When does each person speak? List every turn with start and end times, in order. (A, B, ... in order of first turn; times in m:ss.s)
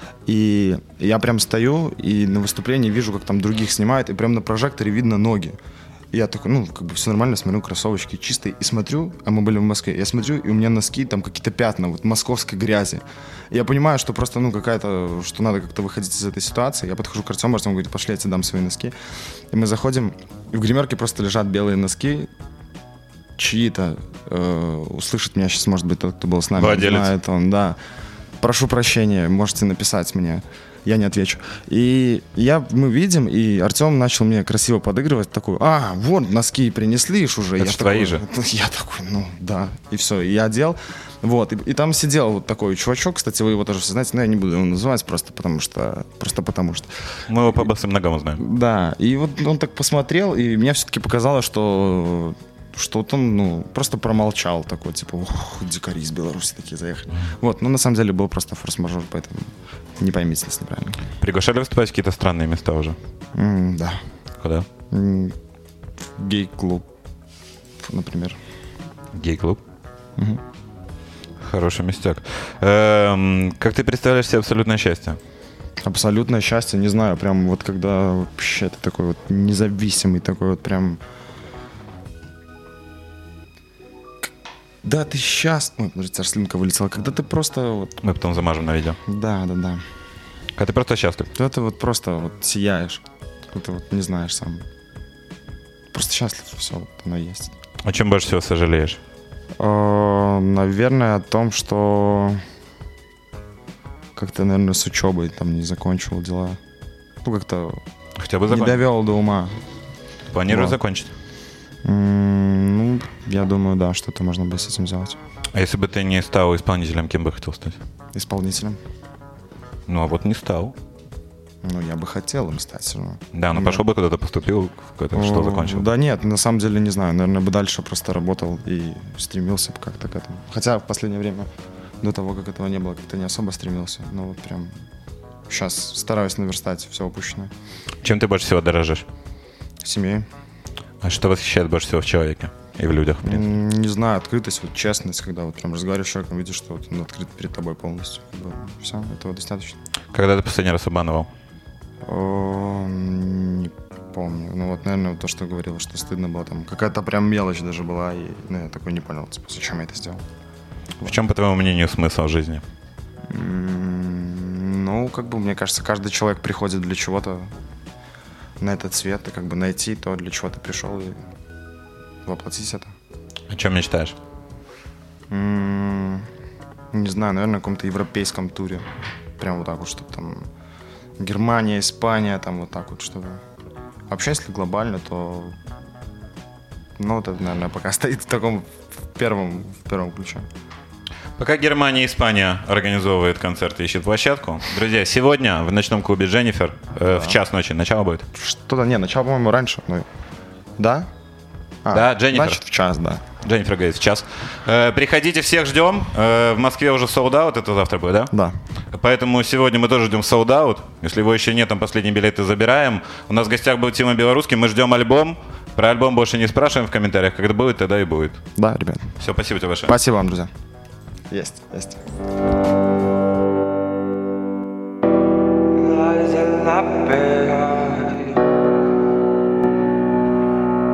0:00.2-0:05.6 A
0:06.1-0:18.9 A
0:19.5-0:22.3 A
0:23.4-0:27.8 A
0:26.6-0:27.1 B
0:28.4-0:46.9 A
0:37.6-0:38.2 B
0:47.3-0:48.4 B
0:48.4-1:01.0 A
1:01.2-1:03.0 B
1:03.3-1:04.0 A
1:04.4-1:04.7 B
1:04.9-1:05.3 A
1:06.2-1:06.9 A
1:07.8-1:08.4 A
1:09.1-1:09.6 B
1:11.4-1:15.2 B
1:15.8-1:21.0 A
1:24.8-1:28.0 A
1:28.0-1:29.0 B
1:29.1-1:29.8 A
1:30.6-1:31.3 B
1:31.3-1:34.6 A
1:35.9-1:37.5 A
1:37.8-1:39.0 B
1:39.6-1:42.4 A
1:44.1-1:46.6 A
1:47.2-1:47.8 A
1:48.2-1:48.8 B
1:48.5-1:49.5 A
1:50.3-1:51.1 B
1:50.5-1:50.8 A
1:51.8-1:55.2 A
1:55.5-1:57.8 B
1:58.1-1:58.8 A
1:59.9-2:00.7 B
2:01.6-2:03.8 A
2:03.3-2:05.9 B
2:05.1-2:11.5 A
2:12.0-2:14.7 A
2:15.5-2:17.5 A
2:18.0-2:19.0 B
2:19.8-2:20.3 A
2:21.0-2:23.5 B
2:23.2-2:29.8 A
2:30.1-2:31.3 B
2:32.0-2:40.2 A
2:41.0-2:42.6 B
2:43.3-2:47.5 A
2:48.6-2:51.2 A
2:52.2-2:52.9 A
2:53.5-2:54.2 B
2:55.3-2:56.3 A
2:56.9-2:58.9 A
2:59.4-3:00.5 A
3:01.2-3:03.4 A
3:04.1-3:05.6 A
3:07.0-3:10.5 A
3:11.4-3:18.2 B
3:17.1-3:17.4 A
3:18.3-3:20.1 A
3:20.8-3:21.1 A
3:21.8-3:23.2 A
3:21.9-3:22.6 B
3:23.4-3:28.3 B
3:28.9-3:38.4 B
3:38.6-3:39.1 A
3:39.2-3:40.0 B
3:39.9-3:40.5 A
3:41.3-3:42.0 A
3:45.8-3:48.4 C